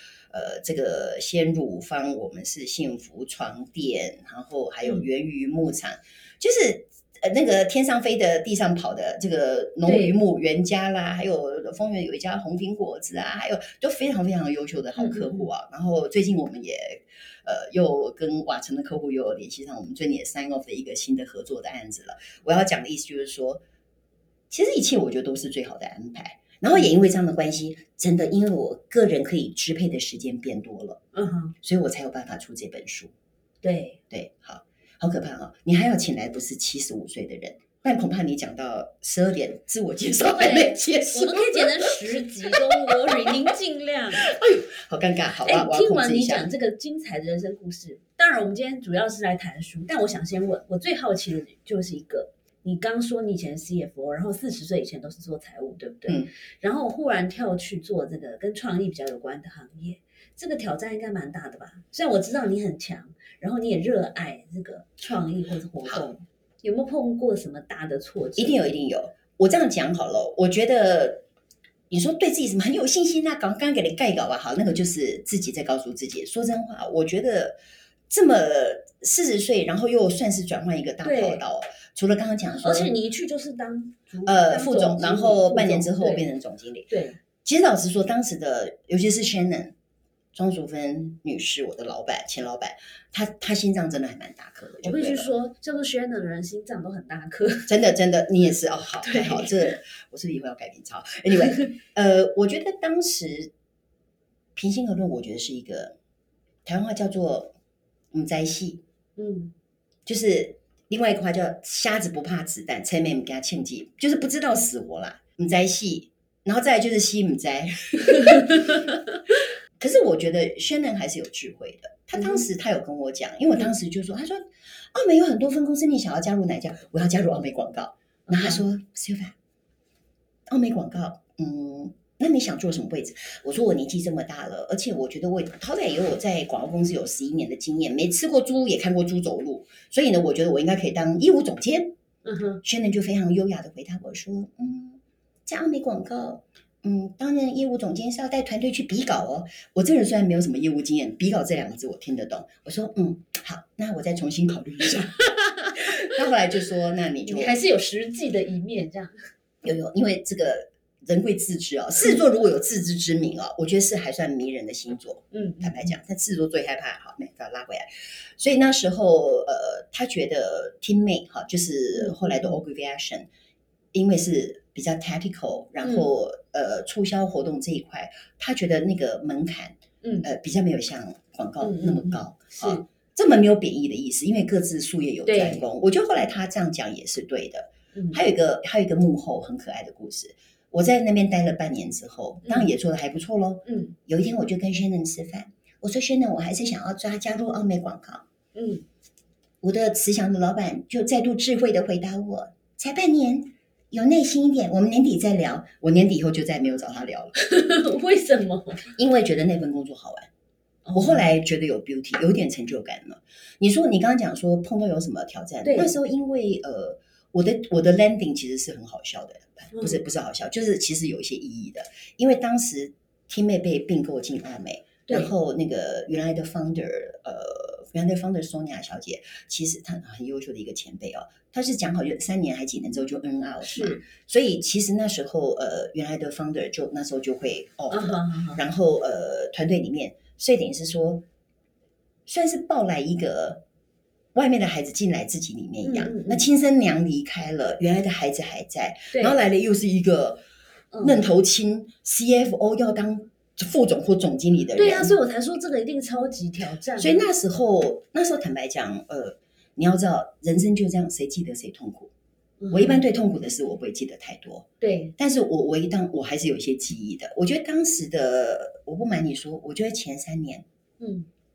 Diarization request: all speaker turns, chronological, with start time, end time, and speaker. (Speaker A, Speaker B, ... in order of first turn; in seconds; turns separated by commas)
Speaker A: 0.3-23.6, Speaker B: 9.8-10.1, Speaker B: 14.9-15.5, Speaker A: 24.5-31.0, Speaker B: 31.1-31.5, Speaker A: 31.6-33.1, Speaker B: 33.6-34.0, Speaker A: 34.1-42.0, Speaker B: 40.4-44.2, Speaker A: 42.5-43.3, Speaker A: 44.2-46.5, Speaker B: 45.4-68.6, Speaker A: 68.4-71.2, Speaker A: 71.9-77.6, Speaker A: 78.1-82.9, Speaker B: 81.0-81.4, Speaker B: 82.6-86.2, Speaker A: 84.2-86.9, Speaker B: 86.9-87.2, Speaker A: 87.4-89.7, Speaker A: 90.3-95.3, Speaker B: 94.8-97.7, Speaker A: 97.7-103.5, Speaker B: 99.0-99.6, Speaker A: 104.5-106.0, Speaker A: 106.6-107.5, Speaker A: 108.1-108.8, Speaker B: 109.2-109.5, Speaker A: 110.0-118.8, Speaker A: 119.8-129.3, Speaker B: 122.2-122.4, Speaker B: 128.3-128.6, Speaker A: 130.5-141.9, Speaker B: 142.2-142.6, Speaker A: 142.6-157.5, Speaker B: 157.2-159.3, Speaker A: 159.6-167.8, Speaker B: 165.3-165.9, Speaker A: 168.4-173.3, Speaker B: 171.9-172.6, Speaker A: 173.9-198.2, Speaker B: 175.8-176.1, Speaker B: 180.0-180.3, Speaker B: 181.6-182.8, Speaker B: 185.3-185.6, Speaker B: 187.9-188.2, Speaker B: 192.4-192.7, Speaker B: 193.6-193.9, Speaker B: 198.5-198.8, Speaker A: 199.6-207.4, Speaker B: 207.3-208.9, Speaker A: 208.9-210.3, Speaker B: 210.8-211.3, Speaker A: 210.9-241.2, Speaker B: 215.6-215.9, Speaker B: 219.7-220.0, Speaker B: 233.6-234.0, Speaker B: 237.9-238.6, Speaker A: 242.2-243.6, Speaker A: 244.3-250.4, Speaker B: 245.8-246.4, Speaker B: 250.9-251.2, Speaker A: 251.0-255.1, Speaker B: 254.8-257.2, Speaker A: 257.0-262.1, Speaker B: 262.6-263.0, Speaker A: 262.7-264.6, Speaker B: 264.8-265.1, Speaker A: 265.2-270.6, Speaker B: 271.0-271.3